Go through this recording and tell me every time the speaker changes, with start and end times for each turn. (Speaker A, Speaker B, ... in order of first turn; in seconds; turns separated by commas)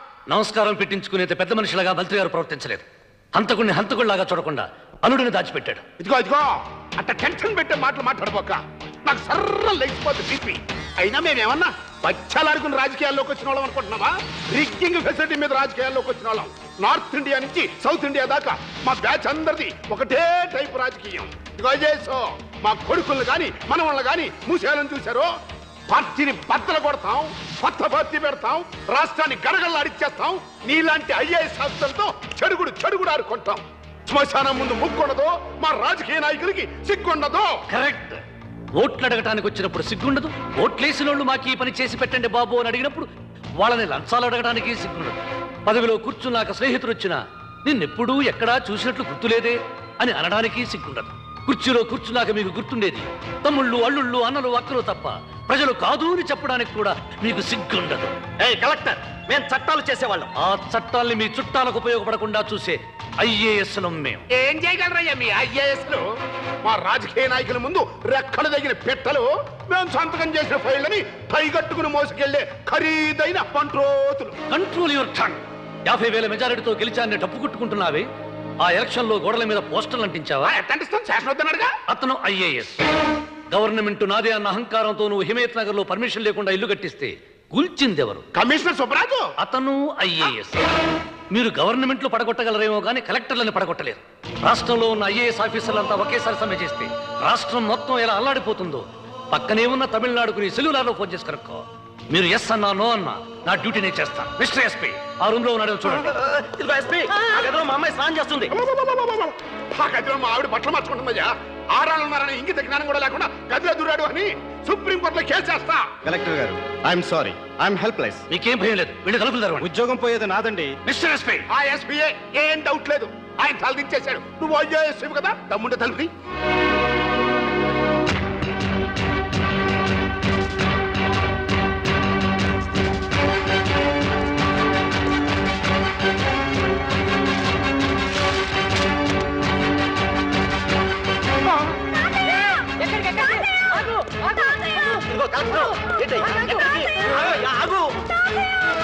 Speaker A: 0.3-5.8, Speaker B: 6.0-25.3, Speaker B: 25.9-37.5, Speaker A: 37.7-38.2, Speaker A: 38.8-43.1, Speaker A: 43.6-58.1, Speaker C: 58.4-60.3, Speaker A: 60.4-64.2, Speaker B: 64.3-66.0, Speaker B: 66.6-74.3, Speaker A: 74.5-78.1, Speaker A: 78.6-80.5, Speaker B: 80.5-81.7, Speaker A: 81.9-82.8, Speaker A: 83.5-88.2, Speaker B: 88.3-89.3, Speaker A: 89.4-90.7, Speaker A: 91.3-106.1, Speaker C: 106.0-108.5, Speaker B: 108.5-115.8, Speaker D: 116.0-118.2, Speaker A: 118.3-119.7, Speaker D: 119.6-120.7, Speaker A: 120.8-121.5, Speaker B: 121.5-126.1, Speaker C: 142.8-143.1, Speaker C: 144.9-147.9